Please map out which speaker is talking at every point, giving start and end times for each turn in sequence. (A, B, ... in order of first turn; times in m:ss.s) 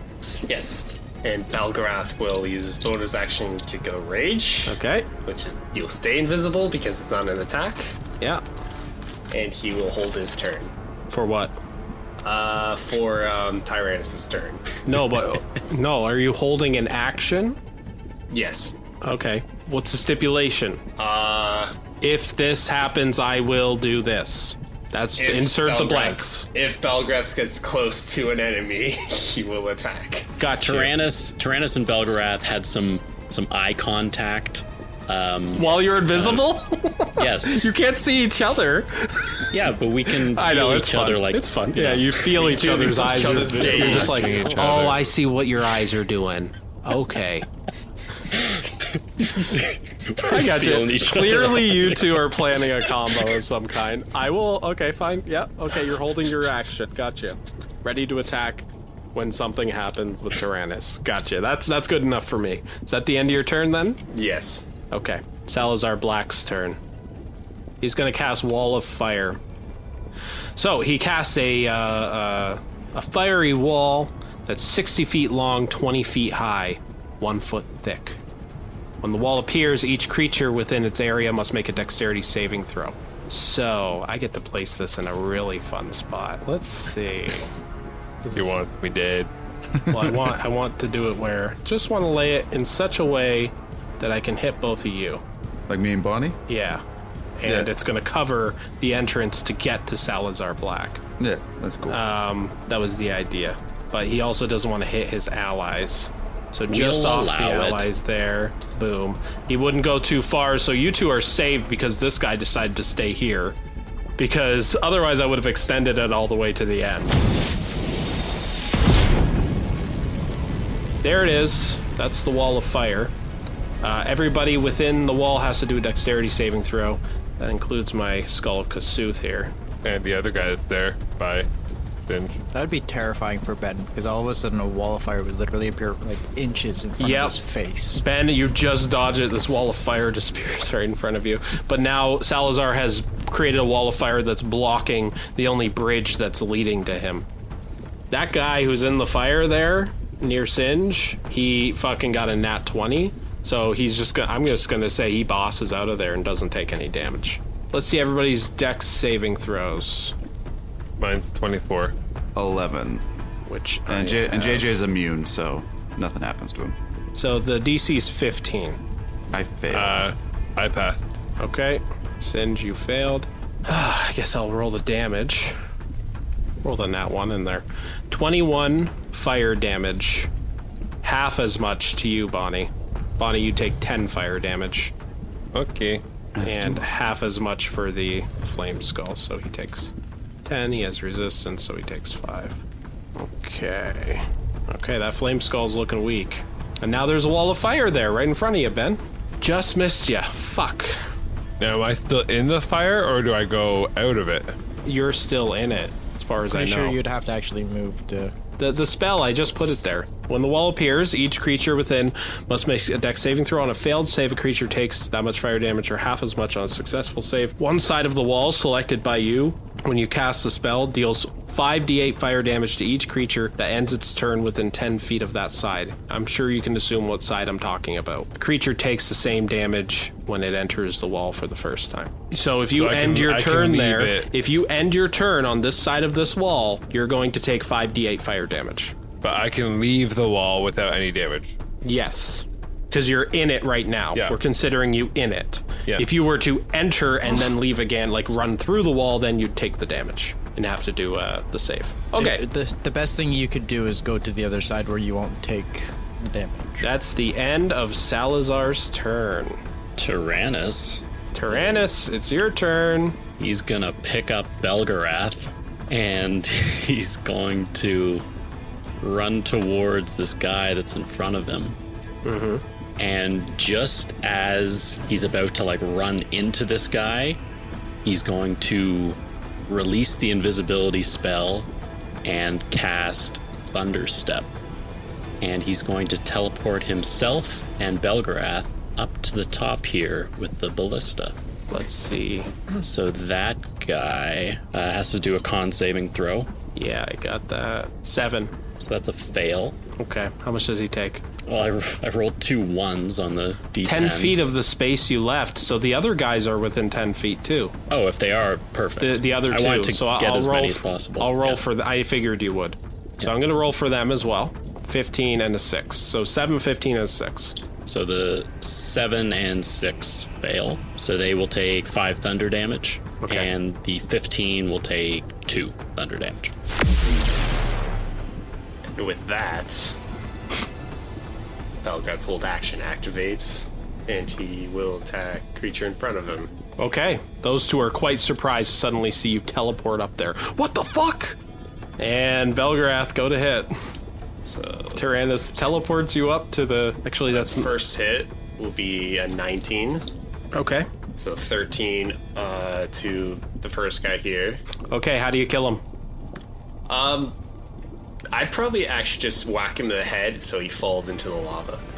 0:00.4-0:07.9 A
0:04.6-0:05.1 B
0:09.3-0:10.7 A
0:11.1-0:11.6 B
0:12.2-0:14.7 A
0:14.8-0:17.6 B
0:18.3-0:18.7 A
0:19.0-0:20.8 B
0:21.0-0:21.7 A
0:22.0-0:26.5 B
0:25.2-0:30.3 A
0:30.4-0:31.0 B
0:30.6-0:36.5 C
0:35.6-0:39.4 B
0:37.2-0:37.7 C
0:39.5-0:42.2 C
0:40.1-0:47.4 B
0:42.4-0:44.5 A
0:43.5-0:45.1 D
0:49.3-0:52.3 C
0:50.2-1:04.0 B
1:04.1-1:04.6 A
1:04.9-1:06.8 B
1:07.8-1:09.4 B
1:10.6-1:18.2 B
1:19.0-1:27.5 B
1:28.2-1:28.6 B
1:28.3-1:29.3 D
1:29.9-1:35.2 B
1:35.7-1:36.4 E
1:36.5-1:36.8 B
1:37.4-1:41.0 B
1:37.4-1:37.7 E
1:41.2-1:42.0 E
1:41.9-1:53.6 B
1:46.7-1:47.9 C
1:54.2-1:57.2 B
2:01.0-2:03.1 B
2:03.8-2:09.5 B
2:09.8-2:11.5 D
2:12.1-2:12.4 D
2:12.5-2:18.0 F
2:17.0-2:17.4 B
2:17.9-2:27.2 B
2:28.1-2:40.1 B
2:41.0-2:41.9 D
2:42.3-2:43.0 E
2:43.4-2:44.7 B
2:43.9-2:46.8 E
2:47.1-2:48.8 B
2:49.3-2:50.0 E
2:49.7-2:51.1 D
2:51.4-2:55.5 B
2:56.6-3:00.3 B
3:01.0-3:04.9 B
3:05.5-3:06.0 D
3:06.4-3:06.8 E
3:06.4-3:09.9 B
3:10.4-3:12.6 B
3:13.2-3:21.0 B
3:21.6-3:24.6 D
3:24.8-3:27.0 B
3:26.5-3:28.3 F
3:28.6-3:58.9 B
3:52.8-3:54.3 D
3:59.2-4:01.6 D
4:01.8-4:12.4 B
4:12.2-4:16.8 F
4:16.8-4:19.6 B
4:20.0-4:21.9 C
4:21.3-4:23.2 B
4:23.4-4:28.2 C
4:29.0-4:31.8 C
4:32.2-4:32.6 B
4:33.0-4:37.4 C
4:38.0-4:41.7 C
4:42.2-4:44.5 C
4:45.4-4:51.4 C
4:51.7-4:52.5 B
4:52.7-4:56.5 C
4:56.7-4:58.5 B
4:58.8-4:59.8 C
5:00.0-5:01.2 B
5:01.4-5:04.4 C
5:03.8-5:07.7 B
5:07.9-5:11.6 C
5:09.0-5:17.6 B
5:17.8-5:26.5 C
5:23.2-5:23.5 B
5:29.0-5:30.0 A
5:31.8-5:36.5 A
5:36.8-5:41.4 B
5:42.0-5:43.7 B
5:44.4-5:45.0 A
5:45.0-5:47.7 B
5:47.3-5:50.0 A
5:50.5-5:50.9 B
5:51.2-5:54.6 A
5:54.9-5:55.8 B
5:56.9-5:57.3 A
5:58.3-6:01.8 A